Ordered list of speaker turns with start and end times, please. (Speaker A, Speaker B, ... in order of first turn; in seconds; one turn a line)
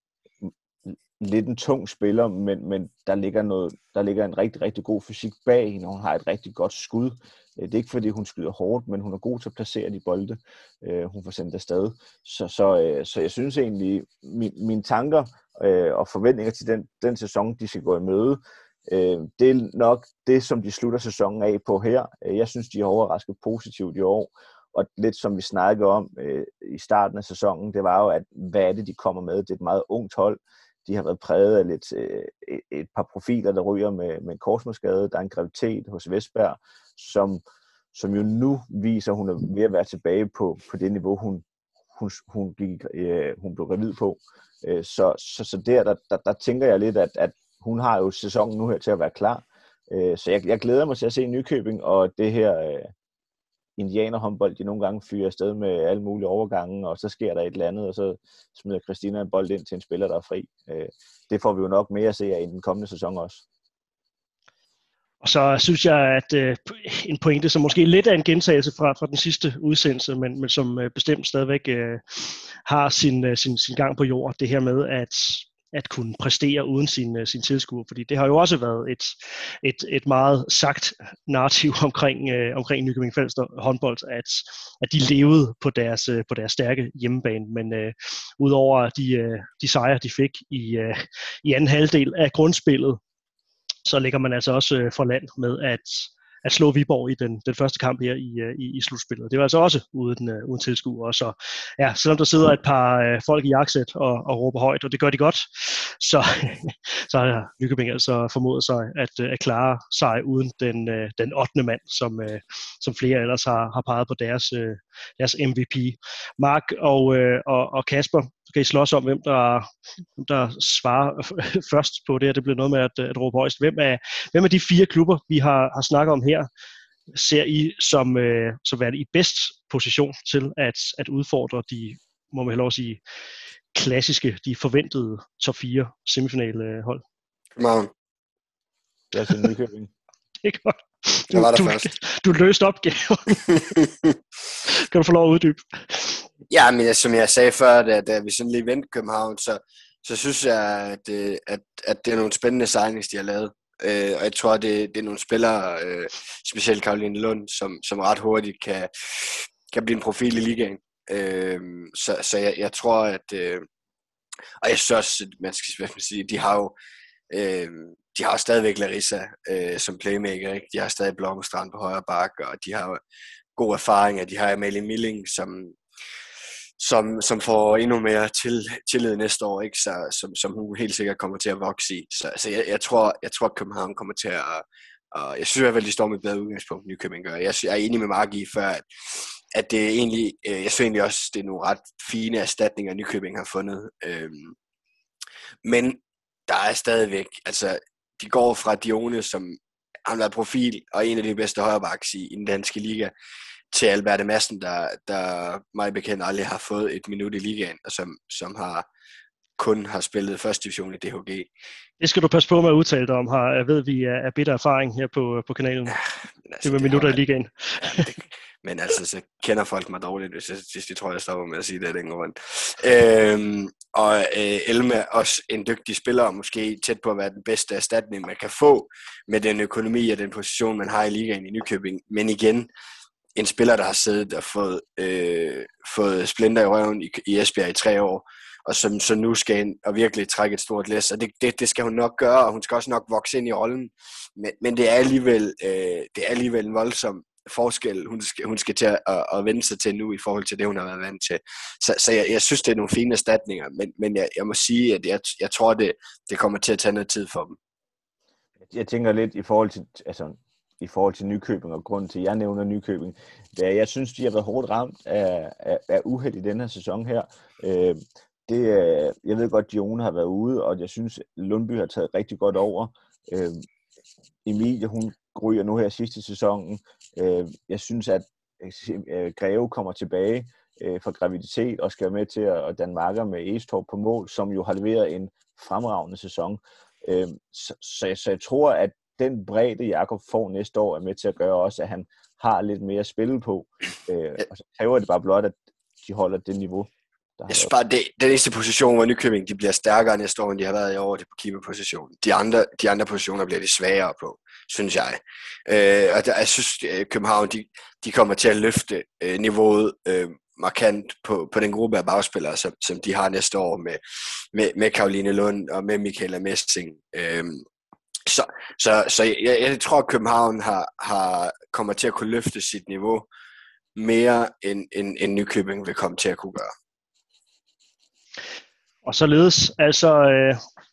Speaker A: 0.4-37.4
Speaker A: 37.9-52.9
Speaker A: 53.8-63.4
Speaker B: 65.2-93.0
Speaker B: 93.8-126.5
Speaker B: 127.1-133.0
Speaker B: 133.7-137.0
Speaker C: 137.6-137.9
Speaker A: 139.1-139.9
Speaker B: 140.4-143.6
Speaker C: 141.3-141.9
Speaker C: 143.5-144.2
Speaker B: 144.7-146.3
Speaker C: 146.5-163.6
Speaker C: 164.6-166.7
Speaker C: 167.3-173.0
Speaker C: 173.6-175.8
Speaker C: 176.8-194.5
Speaker C: 195.6-203.1
Speaker C: 203.7-208.8
Speaker C: 209.6-211.5
Speaker B: 212.0-216.0
Speaker C: 216.4-217.2
Speaker B: 216.6-218.1
Speaker C: 217.8-232.7
Speaker C: 233.3-257.6
Speaker A: 258.6-273.6
Speaker A: 274.4-297.7
Speaker C: 297.5-314.0
Speaker C: 314.5-317.6
Speaker C: 318.2-323.3
Speaker C: 323.9-326.7
Speaker B: 329.0-330.6